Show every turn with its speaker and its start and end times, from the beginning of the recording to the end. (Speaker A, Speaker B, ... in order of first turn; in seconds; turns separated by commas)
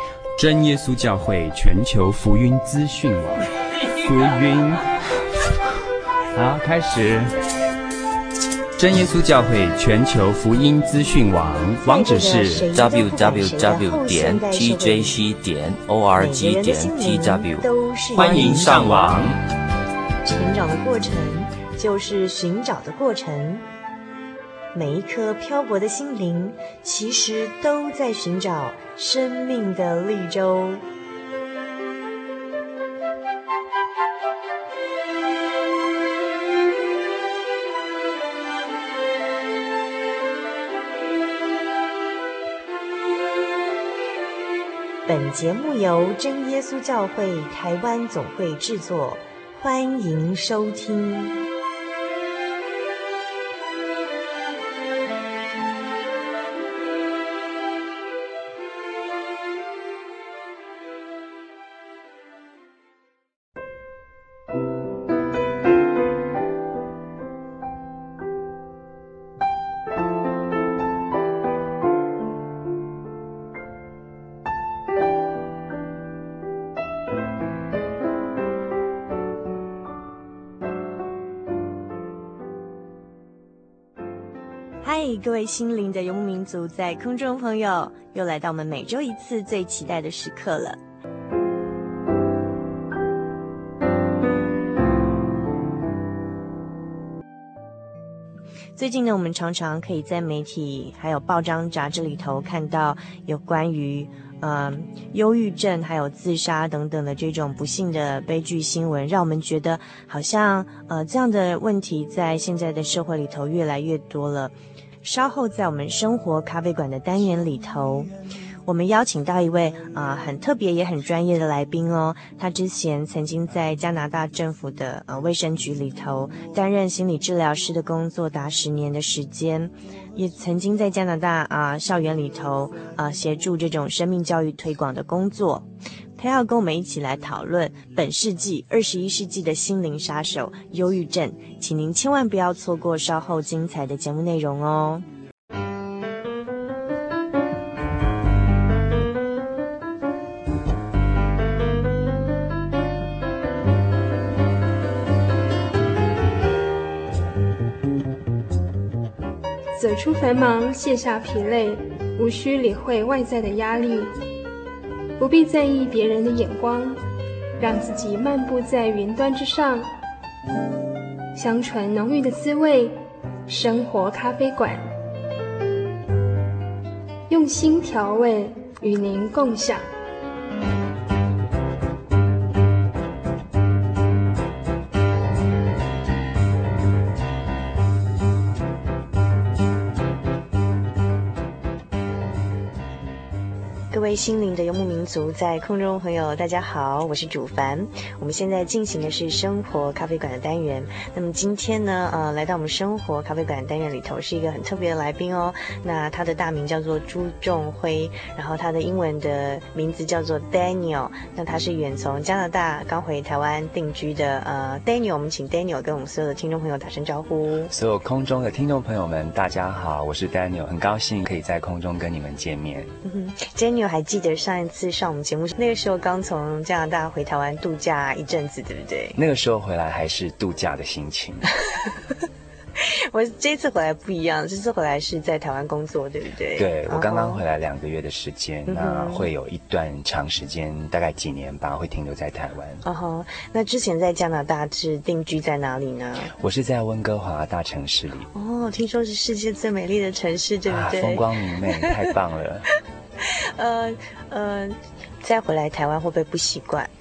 Speaker A: 0.4-5.2, Speaker A: 6.3-7.3, Speaker A: 8.8-12.7, Speaker B: 11.8-15.2, Speaker C: 12.7-17.7, Speaker B: 16.1-19.2, Speaker A: 18.1-19.4, Speaker C: 18.2-19.1, Speaker B: 20.2-23.6, Speaker B: 24.7-30.8, Speaker B: 45.0-51.4, Speaker B: 84.8-90.8, Speaker B: 98.8-118.1, Speaker B: 118.7-135.7, Speaker B: 136.2-145.1, Speaker D: 159.7-164.1, Speaker D: 165.2-167.0, Speaker D: 167.6-169.9, Speaker D: 171.3-174.8, Speaker D: 177.3-179.8, Speaker B: 193.9-217.7, Speaker E: 217.7-222.9, Speaker B: 223.0-229.2, Speaker E: 229.1-231.5, Speaker B: 232.8-237.4, Speaker E: 236.5-242.8, Speaker B: 238.7-239.3, Speaker B: 242.8-246.3, Speaker E: 246.3-248.3, Speaker B: 248.3-251.9, Speaker E: 250.7-252.7, Speaker B: 253.2-256.9